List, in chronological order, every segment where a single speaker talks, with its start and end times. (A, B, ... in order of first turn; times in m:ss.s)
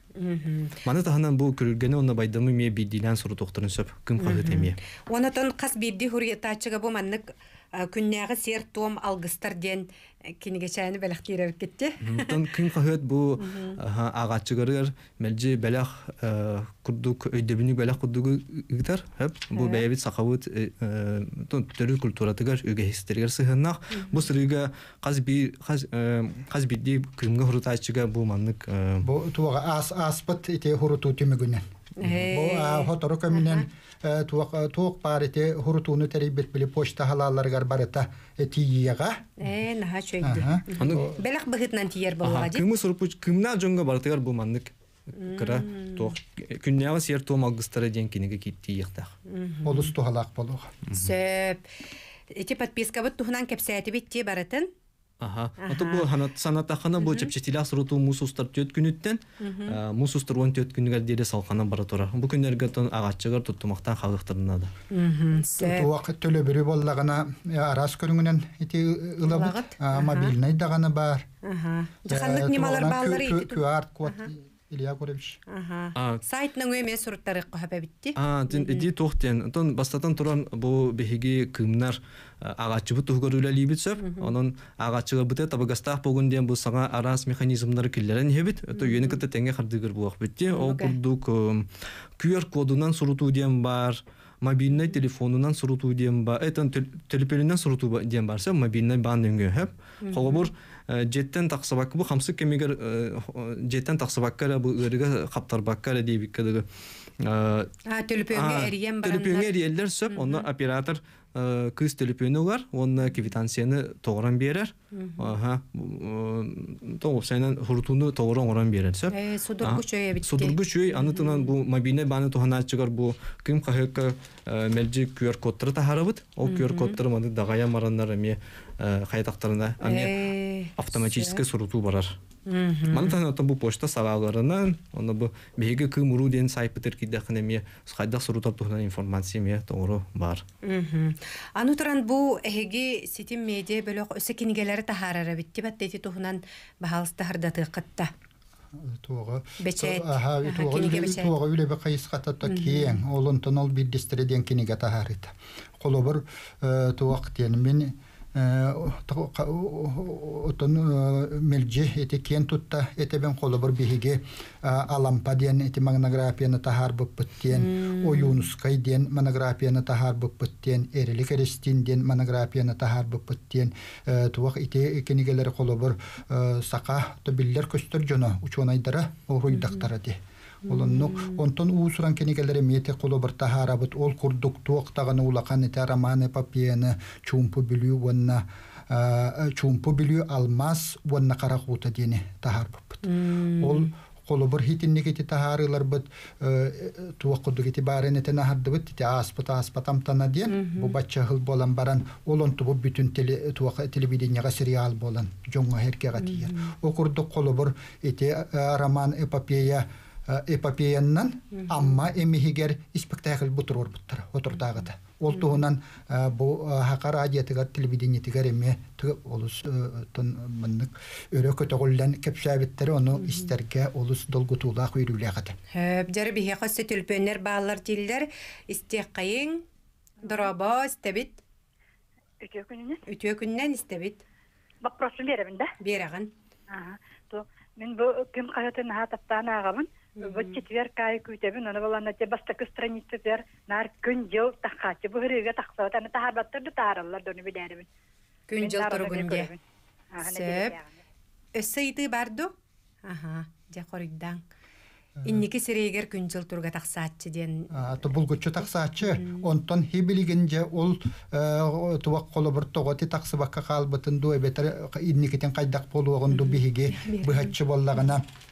0:00.2-0:00.8 A
0:00.8-0:04.8 B
0:04.2-0:09.9 A
0:10.4-0:12.5 A
0:12.0-0:29.1 B
0:13.4-0:13.8 A
0:19.5-0:19.8 A
0:23.9-0:24.3 A
0:29.0-0:31.6 C
0:32.0-0:33.6 A
0:32.3-0:39.3 C
0:39.4-0:42.6 A
0:40.2-0:41.0 C
0:40.8-0:41.1 B
0:42.2-0:49.2 B
0:45.2-0:46.1 A
0:49.3-0:49.9 A
0:49.6-0:50.7 C
0:50.9-0:51.7 A
0:52.3-0:54.7 A
0:55.2-1:04.7 B
0:55.6-0:56.1 A
0:57.0-0:57.3 A
0:59.4-0:59.8 A
1:04.9-1:05.9 A
1:05.6-1:11.3 C
1:09.3-1:10.3 A
1:11.4-1:14.3 A
1:12.1-1:15.4 C
1:15.5-1:18.9 A
1:16.0-1:16.2 B
1:18.2-1:46.6 B
1:24.0-1:24.3 A
1:28.7-1:29.2 A
1:30.5-1:31.0 A
1:40.0-1:40.5 A
1:47.2-1:47.7 B
1:47.9-1:49.5 A
1:48.3-2:10.2 B
1:50.1-1:50.5 A
1:54.9-1:55.4 A
1:59.1-2:01.5 A
2:06.4-2:07.0 A
2:09.8-2:11.4 A
2:10.7-2:12.2 B
2:12.5-2:13.2 A
2:12.9-2:20.4 B
2:20.6-2:28.1 A
2:28.8-3:13.0 C
2:29.6-2:31.3 A
2:32.4-2:33.0 A
2:47.5-2:48.4 A
2:59.5-2:59.9 A
3:00.6-3:01.4 A
3:13.0-3:13.9 A
3:13.6-3:45.6 C
3:20.5-3:20.9 A
3:26.2-3:26.7 A
3:31.6-3:32.0 A
3:35.3-3:35.6 A
3:43.2-3:43.5 A
3:45.7-3:49.6 A
3:50.2-3:51.4 A
3:52.4-3:53.0 D
3:53.1-3:54.2 A
3:54.8-3:55.7 D
3:55.8-3:56.3 A
3:56.7-4:07.9 D
4:00.2-4:00.6 A
4:08.5-4:09.5 A
4:08.5-4:09.6 D
4:10.1-4:11.0 D
4:10.2-4:10.8 A
4:11.5-4:12.5 A
4:13.0-4:14.4 A
4:15.2-4:17.7 A
4:17.7-4:28.2 C
4:19.0-4:19.4 A
4:26.3-4:27.6 A